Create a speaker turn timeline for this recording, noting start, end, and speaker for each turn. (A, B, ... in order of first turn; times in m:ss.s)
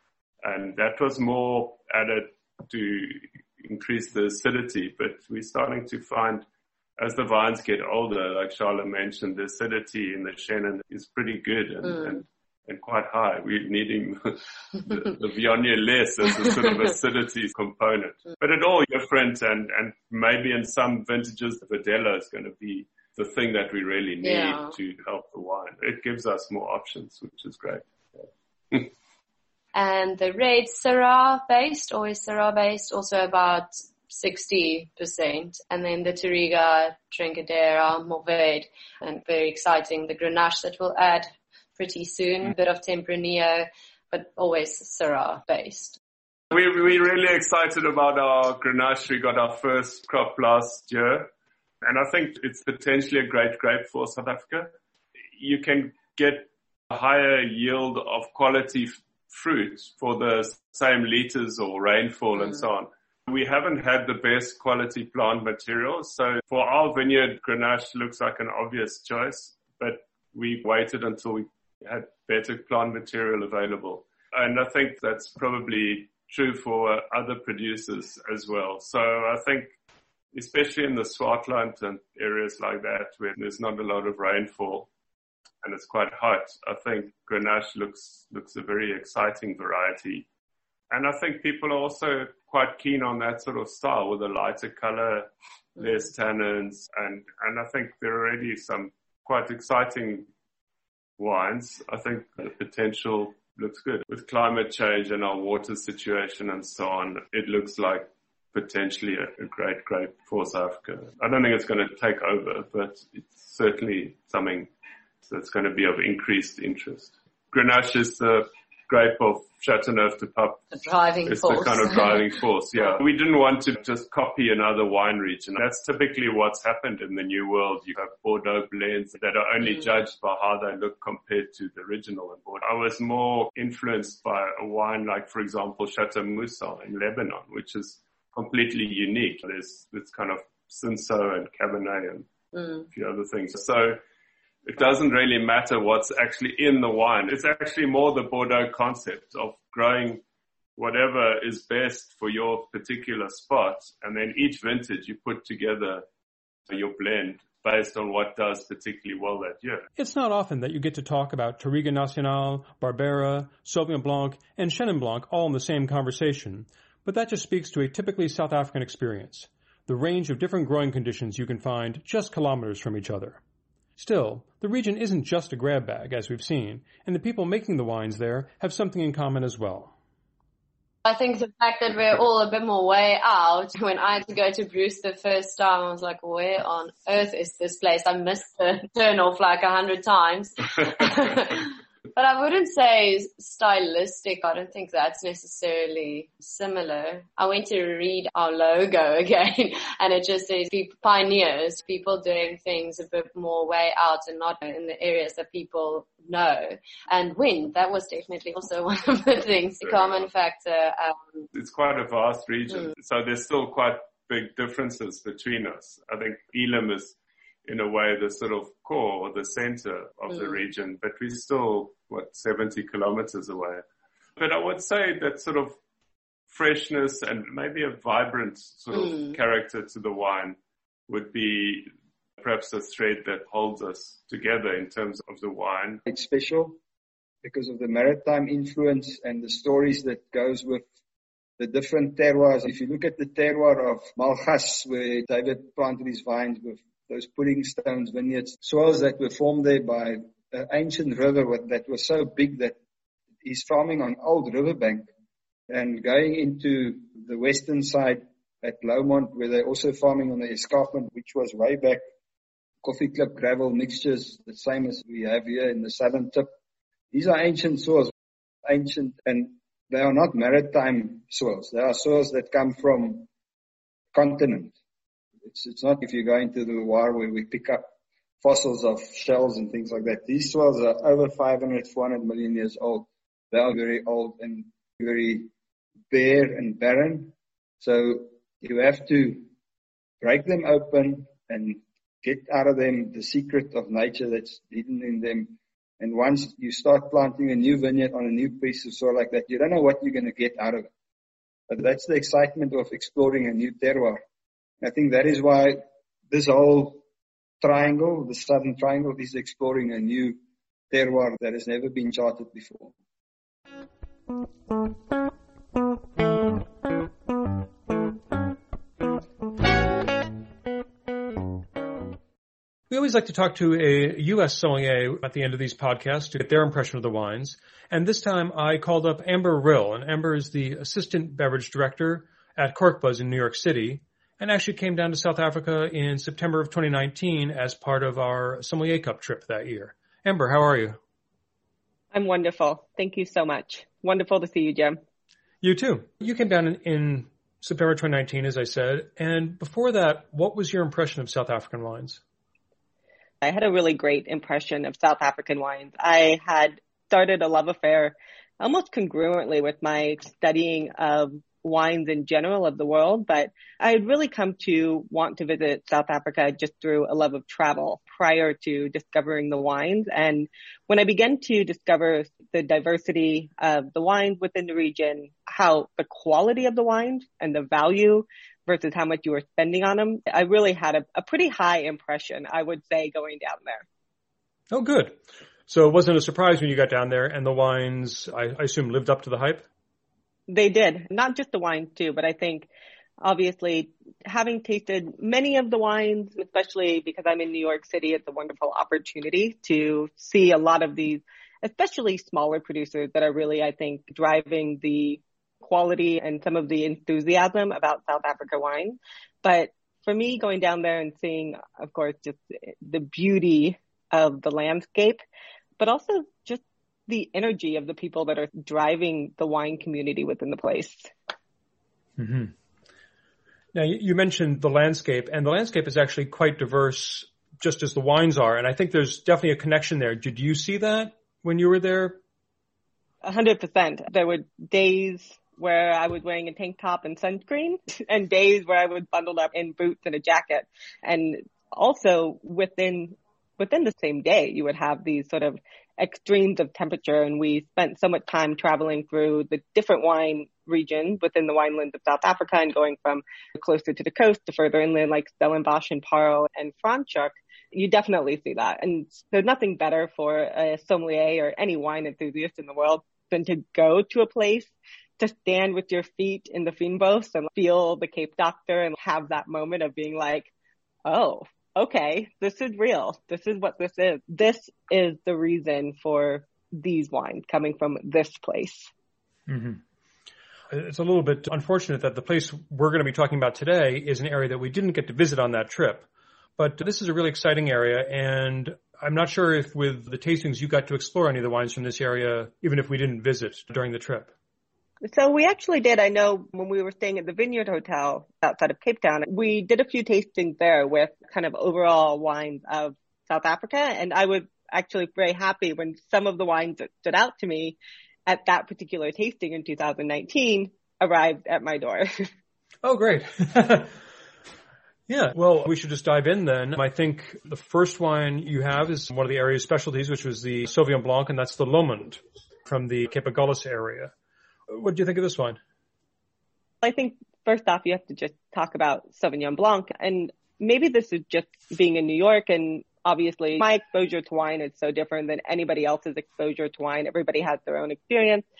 0:00.4-0:06.4 A
0:07.0-0:28.9 A
0:24.2-0:24.7 B
0:29.7-0:46.0 B
0:46.5-0:51.3 A
0:51.8-0:54.7 A
0:55.4-1:19.7 A
1:20.3-1:24.9 A
1:25.6-1:30.3 A
1:30.9-1:40.3 A
1:41.2-1:54.7 A
1:55.2-2:00.7 A
2:00.7-2:02.2 B
2:01.2-2:22.3 A
2:22.9-2:24.0 A
2:24.6-2:30.2 A
2:30.8-2:36.0 A
2:36.7-2:39.8 A
2:40.0-2:53.4 C
2:54.0-2:59.9 C
3:01.0-3:31.4 B
3:29.8-3:30.3 A
3:31.5-3:43.8 A
3:44.4-3:45.8 A
3:46.5-3:50.6 A
3:51.1-3:56.0 A
3:56.0-3:56.8 D
3:57.4-4:00.8 D
4:01.6-4:12.8 D
4:13.4-4:15.1 D
4:15.7-4:22.0 D
4:22.8-4:26.5 D
4:27.1-4:28.1 D
4:28.6-4:33.3 D
4:34.1-4:34.7 D
4:35.4-4:45.5 D
4:46.1-4:49.5 D
4:50.2-5:00.9 D
5:01.7-5:04.2 D
5:04.8-5:07.0 D
5:07.6-5:10.4 D
5:10.9-5:12.9 D
5:22.9-5:41.0 C
5:42.1-5:45.0 E
5:45.6-5:52.2 C
5:53.4-6:23.8 E
6:24.7-6:29.6 C
6:30.5-6:32.7 E
6:33.2-6:55.2 E
6:55.8-7:01.1 E
7:02.2-7:02.5 C
7:03.7-7:12.2 C
7:13.2-7:50.5 E
7:51.1-7:58.9 E
7:59.5-7:59.8 C
8:00.7-8:14.3 C
8:15.0-8:32.3 E
8:32.8-8:33.9 C
8:35.1-8:44.1 C
8:44.7-8:45.6 C
8:46.8-8:58.4 E